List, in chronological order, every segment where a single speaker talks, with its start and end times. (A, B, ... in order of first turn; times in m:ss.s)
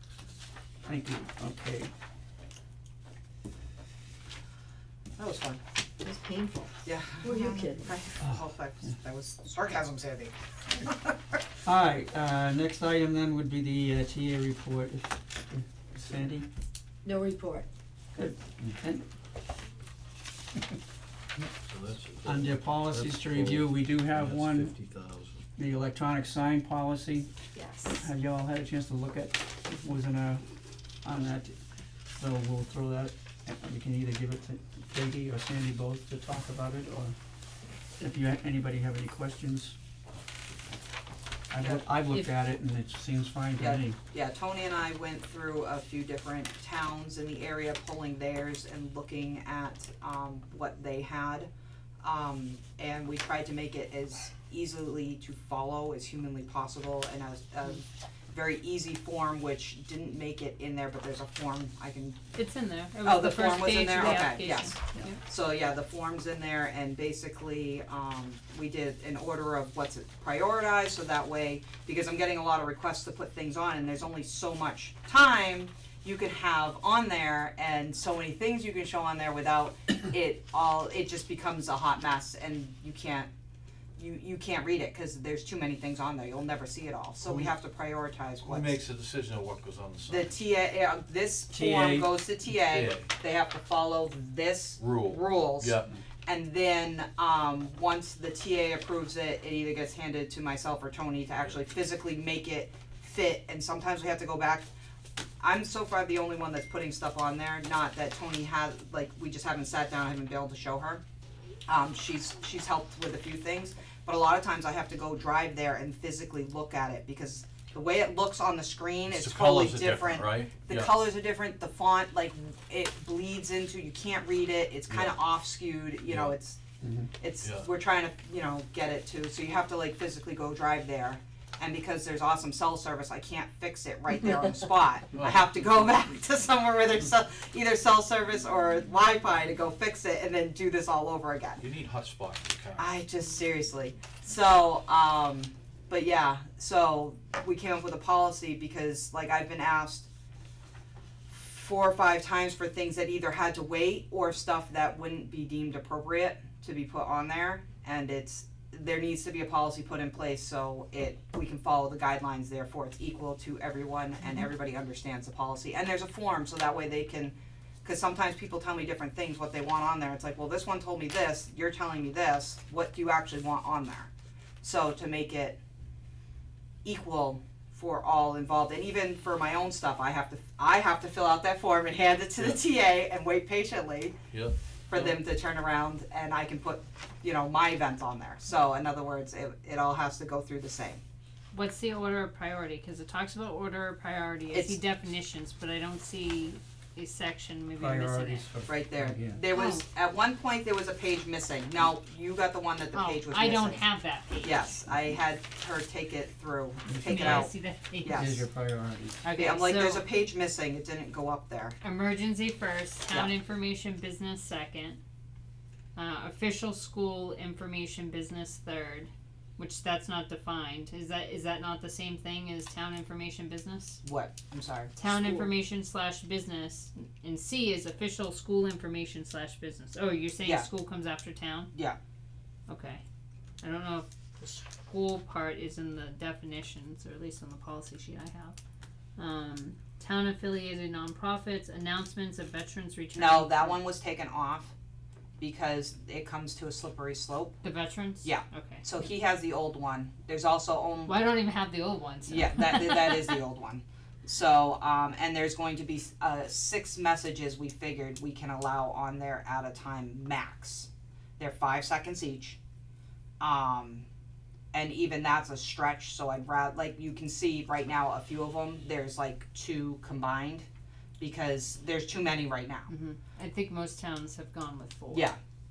0:00.8-0:01.9 A
0:05.2-0:05.6 B
0:06.0-0:07.8 C
0:06.8-0:11.1 B
0:08.2-0:08.9 A
0:11.6-0:16.5 A
0:17.0-0:17.7 C
0:18.1-0:19.0 A
0:21.6-0:25.4 D
0:22.2-0:24.7 A
0:25.6-0:27.3 A
0:27.5-0:28.0 C
0:27.9-0:30.4 A
0:31.0-0:31.5 A
0:32.1-0:37.1 A
0:38.0-0:39.8 A
0:41.5-0:44.0 A
0:43.6-0:51.5 B
0:52.0-1:02.2 B
1:02.3-1:05.2 E
1:03.0-1:23.3 B
1:24.0-1:28.8 B
1:27.2-1:27.5 D
1:28.4-1:30.4 D
1:30.1-1:35.7 B
1:31.5-1:32.1 A
1:32.5-1:33.1 D
1:34.8-1:35.9 D
1:36.2-1:44.7 B
1:45.4-1:51.0 B
1:51.7-2:06.6 B
1:59.1-2:00.9 D
2:04.9-2:05.2 D
2:06.0-2:06.4 D
2:06.8-2:07.1 A
2:07.2-2:21.6 B
2:07.4-2:07.7 D
2:15.1-2:15.5 D
2:21.6-2:22.9 D
2:22.8-2:30.1 B
2:31.3-2:55.6 B
2:56.8-3:04.2 B
3:02.4-3:02.6 D
3:04.3-3:05.0 D
3:04.9-3:11.0 B
3:11.5-3:18.4 E
3:14.5-3:14.8 B
3:17.8-3:19.4 A
3:18.7-3:23.8 B
3:19.5-3:19.8 E
3:22.9-3:24.8 E
3:24.4-3:28.4 B
3:26.9-3:27.5 A
3:27.0-3:28.4 E
3:28.1-3:29.2 A
3:29.2-3:30.1 E
3:29.3-3:31.8 B
3:31.8-3:35.0 E
3:35.9-3:44.0 E
3:44.0-3:45.5 B
3:44.9-3:51.7 E
3:50.4-3:50.7 B
3:51.7-3:52.0 B
3:52.7-3:53.0 E
3:53.6-3:58.6 E
3:59.2-4:03.8 E
4:03.1-4:04.7 B
4:05.4-4:07.6 B
4:07.6-4:08.8 E
4:08.2-4:11.2 B
4:11.0-4:13.4 E
4:12.3-4:22.6 B
4:23.4-4:24.0 B
4:24.7-4:30.7 B
4:31.2-4:32.9 B
4:32.9-4:35.3 E
4:35.1-4:35.4 B